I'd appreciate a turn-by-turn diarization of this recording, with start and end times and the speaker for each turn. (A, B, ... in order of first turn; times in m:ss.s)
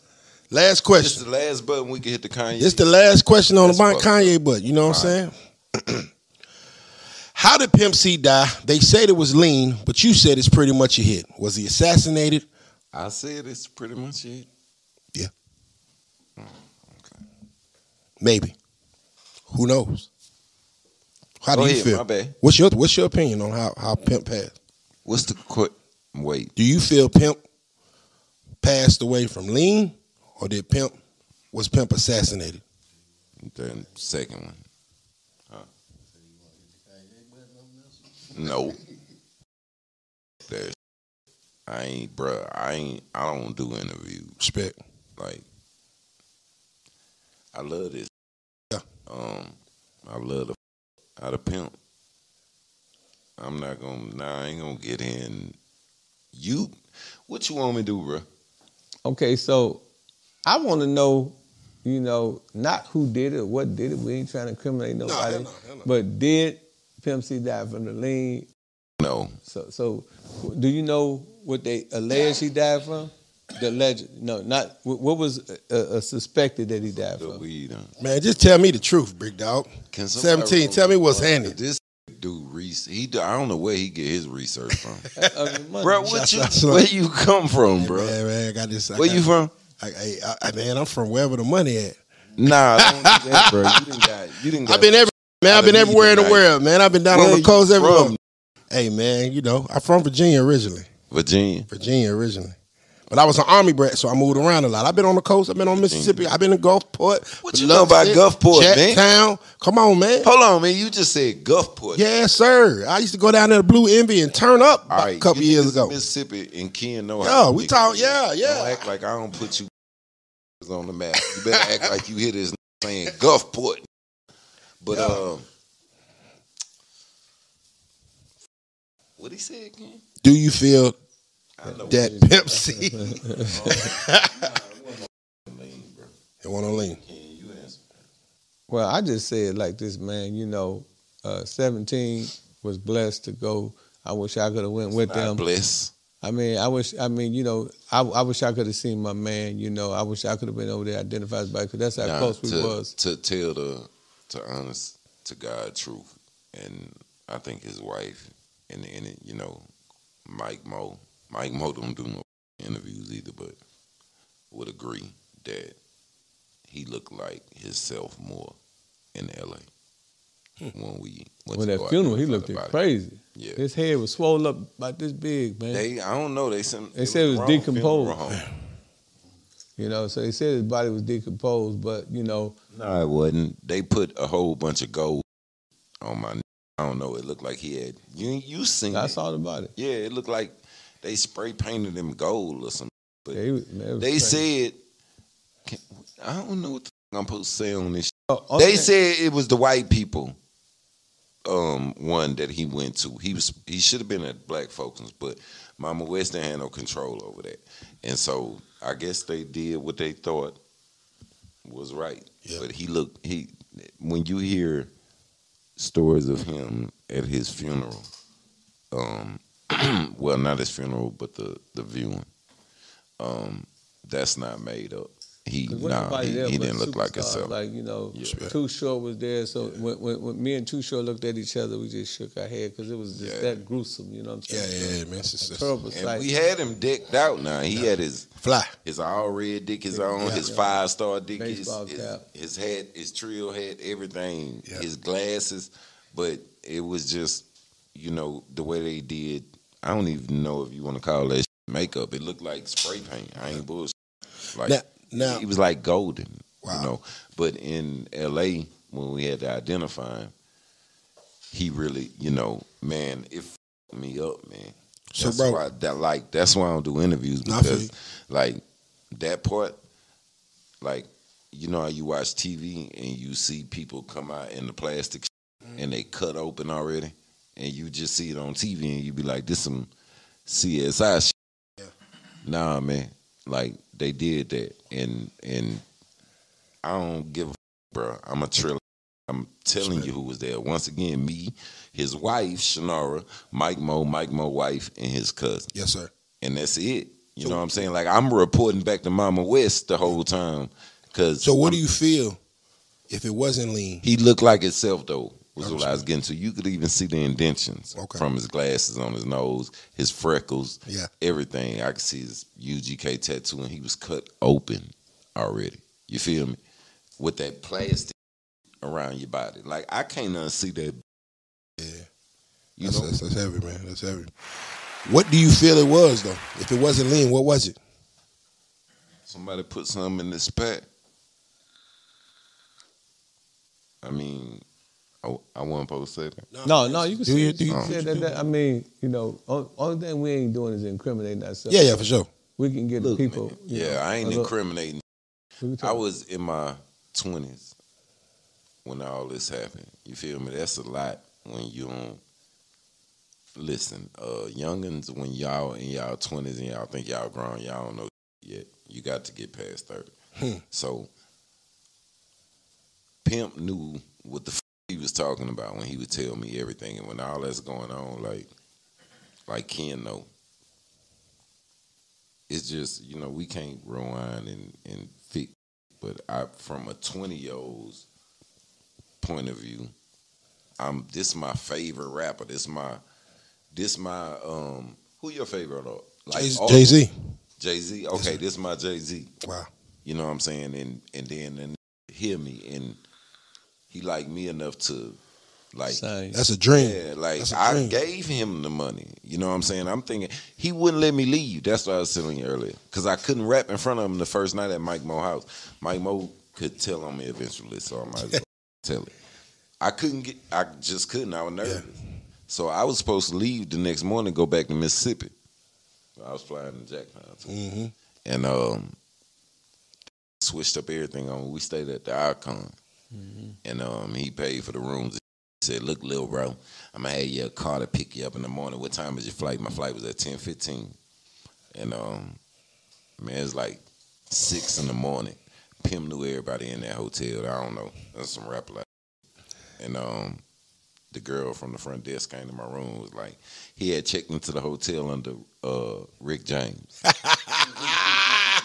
0:00.5-0:01.2 A
0:00.9-0:02.9 B
0:02.6-0:06.1 A
0:03.6-0:05.2 B
0:07.3-0:12.4 A
0:12.9-0:14.5 B
0:16.4-0:17.2 B
0:18.2-0:18.6 A
0:19.5-0:20.1 A
0:21.4-0:24.5 A
0:21.5-0:22.3 B
0:25.0-0:26.5 B
0:26.6-0:27.4 A
0:28.6-0:31.0 A
0:31.5-0:32.6 A
0:33.4-0:34.6 B
0:38.3-0:38.8 B
0:40.5-0:40.7 B
0:41.7-0:44.4 B
0:44.4-0:44.8 A
0:45.2-0:45.4 B
0:47.5-0:48.1 B
0:49.0-0:50.6 B
0:51.2-0:51.7 B
0:53.4-0:55.6 B
0:56.3-0:56.7 B
0:57.3-0:58.2 B
0:59.0-0:59.8 C
1:00.4-1:08.5 C
1:05.0-1:05.9 A
1:09.0-1:09.4 B
1:09.4-1:17.4 C
1:17.1-1:17.9 B
1:18.0-1:21.6 A
1:19.9-1:25.1 B
1:25.1-1:26.3 C
1:25.8-1:28.2 B
1:26.1-1:26.9 A
1:27.8-1:29.2 A
1:28.9-1:29.5 B
1:29.8-1:32.0 A
1:32.4-1:36.4 B
1:32.8-1:33.8 A
1:34.6-1:38.2 A
1:37.1-1:38.2 B
1:38.7-1:40.9 A
1:41.1-1:41.7 B
1:41.7-1:42.5 A
1:43.1-1:50.3 A
1:45.7-1:46.4 B
1:47.4-1:49.0 B
1:50.2-1:52.0 B
1:51.9-1:56.0 A
1:54.9-1:59.7 B
1:57.2-1:58.9 A
2:00.6-2:03.8 B
2:04.8-2:05.4 B
2:04.9-2:05.2 A
2:09.2-2:10.0 B
2:10.2-2:11.0 A
2:11.6-2:12.1 B
2:11.6-2:13.9 C
2:11.9-2:14.5 A
2:13.5-2:13.9 B
2:14.5-2:16.1 B
2:16.4-2:17.0 A
2:16.6-2:17.8 B
2:18.7-2:25.4 C
2:24.9-2:25.9 B
2:26.2-2:32.9 C
2:32.0-2:39.7 B
2:40.2-2:43.6 B
2:44.5-2:45.8 B
2:46.7-2:48.5 B
2:49.1-2:49.7 B
2:50.7-2:52.8 B
2:51.5-2:55.8 C
2:53.3-2:53.6 B
2:55.7-2:58.4 B
2:56.9-2:58.2 C
2:59.8-3:02.6 C
3:02.7-3:05.2 B
3:06.0-3:09.2 B
3:08.9-3:09.7 C
3:09.8-3:13.4 B
3:13.3-3:14.5 C
3:14.0-3:14.8 B
3:15.7-3:20.4 B
3:18.3-3:18.9 C
3:21.4-3:30.6 B
3:31.6-3:34.9 B
3:35.8-3:38.1 B
3:38.9-3:42.3 B
3:43.2-3:47.6 B
3:45.7-3:56.3 C
3:48.1-3:48.5 B
3:48.2-3:48.6 A
3:53.1-3:53.6 B
3:54.5-3:55.8 A
3:55.9-3:58.3 B
3:57.7-3:58.7 A
3:58.8-4:13.9 B
3:59.9-4:00.7 C
4:00.2-4:00.5 A
4:01.4-4:02.2 C
4:14.5-4:20.3 B
4:14.6-4:15.4 A
4:16.6-4:16.9 A
4:21.5-4:28.6 B
4:25.1-4:25.6 A
4:27.4-4:27.9 A
4:29.1-4:29.8 B
4:30.8-4:39.9 B
4:40.5-4:41.3 B
4:42.4-4:45.8 B
4:46.8-4:55.7 B
4:49.8-4:50.1 A
4:55.7-4:56.1 A
4:56.4-5:01.8 B
4:57.4-4:57.7 A
5:01.4-5:02.4 A
5:03.1-5:04.0 A
5:04.0-5:16.6 B
5:05.6-5:06.1 A
5:08.0-5:08.2 A
5:17.2-5:18.1 B
5:18.8-5:21.0 B
5:21.8-5:22.0 A
5:22.8-5:23.2 B
5:22.8-5:24.3 A
5:25.0-5:27.8 A
5:29.2-5:30.9 B
5:34.0-5:34.6 B
5:35.2-5:36.5 B
5:36.5-5:38.5 A
5:36.6-5:42.0 C
5:37.7-5:38.0 B
5:41.7-5:42.3 A
5:42.6-5:44.5 C
5:43.0-5:45.0 B
5:45.6-5:46.0 C
5:45.8-5:47.7 B
5:48.8-5:52.2 B
5:53.5-6:00.1 B
6:00.7-6:01.1 B
6:03.2-6:08.5 B
6:09.5-6:10.3 B
6:12.5-6:18.0 B
6:19.2-6:19.9 B
6:20.8-6:23.0 B
6:23.7-6:27.0 B
6:26.3-6:27.3 A
6:27.6-6:29.3 B
6:28.1-6:28.4 A
6:29.4-6:29.7 A
6:30.0-6:33.0 B
6:33.9-6:35.2 B
6:35.7-6:36.0 B
6:35.8-6:36.4 C
6:36.3-6:38.0 A
6:36.7-6:49.1 B
6:49.8-6:51.9 B
6:52.5-6:55.3 B
6:56.2-6:57.5 B
6:57.5-6:57.9 A
6:58.2-6:59.0 B
7:00.4-7:02.7 B
7:03.1-7:03.6 C
7:03.6-7:11.0 B
7:11.7-7:12.4 B
7:13.2-7:18.8 B
7:19.8-7:20.4 B
7:21.1-7:27.0 B
7:27.1-7:28.2 A